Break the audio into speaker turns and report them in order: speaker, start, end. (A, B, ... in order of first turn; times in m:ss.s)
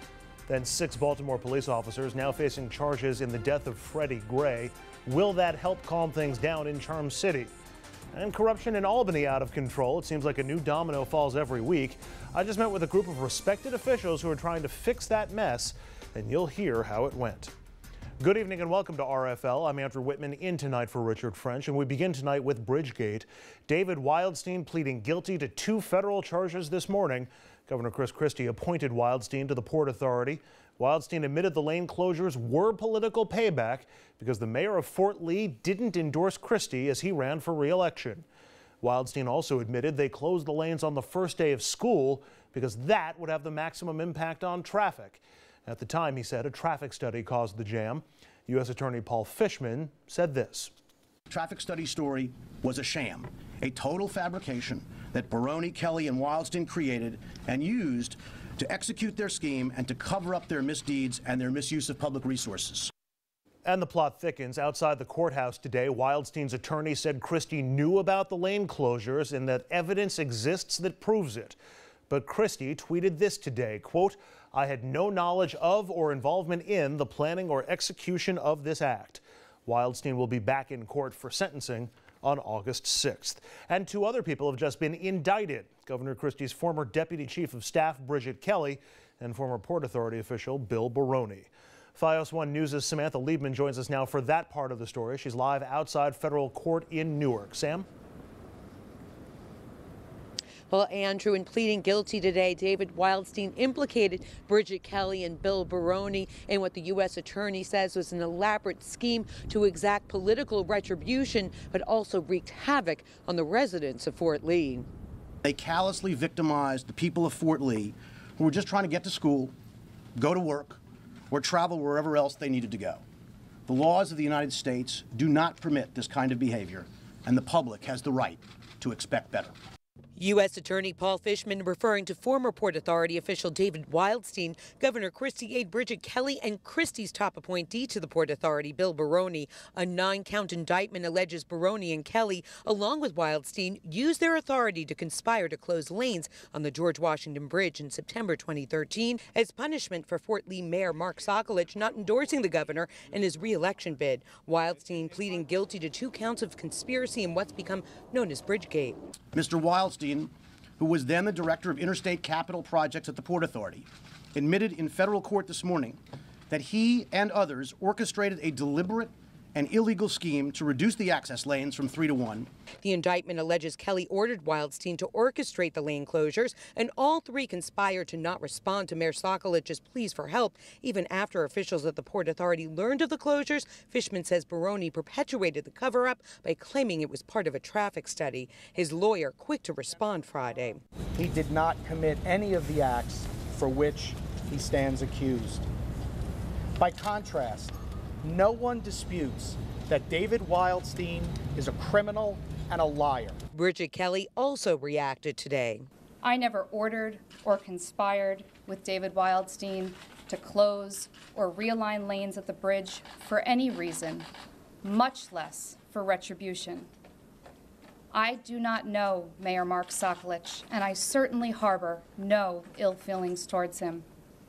0:00.5-0:07.5 A
0:08.1-0:17.5 A
0:18.2-0:38.2 A
0:38.8-0:50.7 A
0:51.3-1:02.9 B
1:03.6-1:11.6 A
1:12.1-1:37.9 A
1:40.7-1:54.9 C
1:55.4-1:59.5 B
2:00.2-2:03.0 B
2:03.7-2:09.6 B
2:10.2-2:39.0 C
2:39.3-2:52.5 B
2:52.8-3:10.8 C
3:11.2-3:15.7 D
3:16.8-3:23.4 D
3:23.5-3:25.9 C
3:26.3-3:34.2 E
3:34.9-3:36.8 E
3:38.2-3:44.0 E